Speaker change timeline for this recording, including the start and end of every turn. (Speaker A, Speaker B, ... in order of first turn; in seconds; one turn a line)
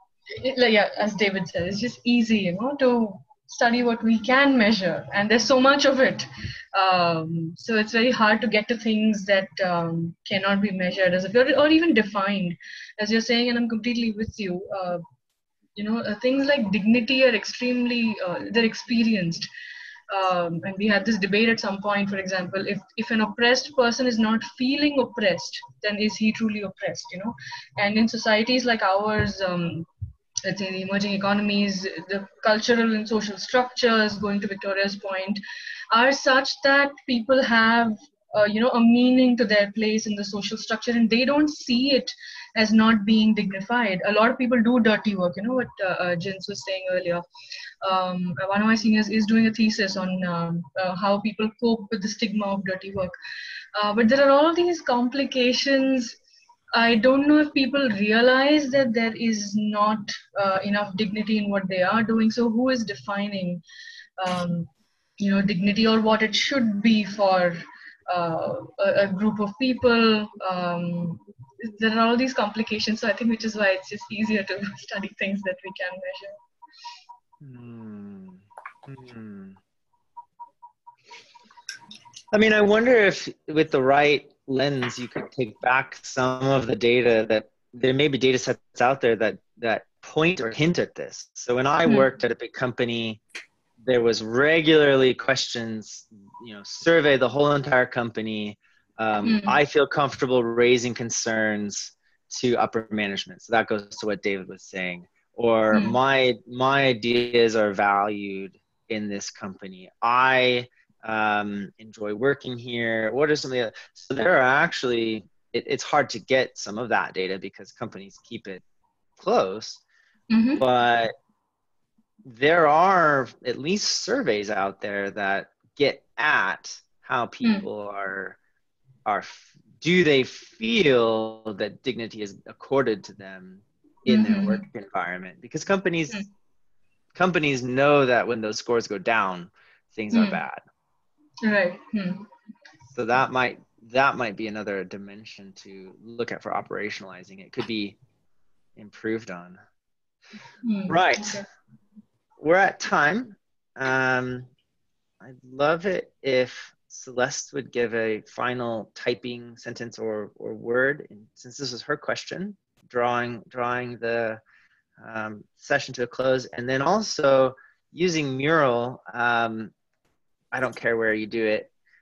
Speaker A: 0.3-15.0
Speaker A: 15.8-19.5
Speaker A: 20.1-29.9
Speaker A: 30.4-47.2
Speaker A: 47.8-53.1
Speaker A: 53.7-56.1
Speaker A: 56.7-63.6
Speaker A: 64.2-76.4
Speaker B: 77.4-79.6
Speaker B: 82.3-93.2
Speaker B: 93.8-118.6
Speaker A: 99.2-99.6
Speaker B: 119.2-119.8
Speaker A: 120.3-120.6
Speaker B: 120.6-121.1
Speaker B: 122.2-128.4
Speaker B: 129.1-136.2
Speaker A: 134.1-134.6
Speaker B: 137.1-140.6
Speaker A: 140.1-140.4
Speaker A: 141.4-142.3
Speaker B: 142.9-148.0
Speaker B: 148.8-149.6
Speaker A: 150.6-151.4
Speaker B: 150.9-151.4
Speaker B: 152.4-154.5
Speaker B: 155.2-164.4
Speaker B: 165.0-169.7
Speaker B: 170.5-171.7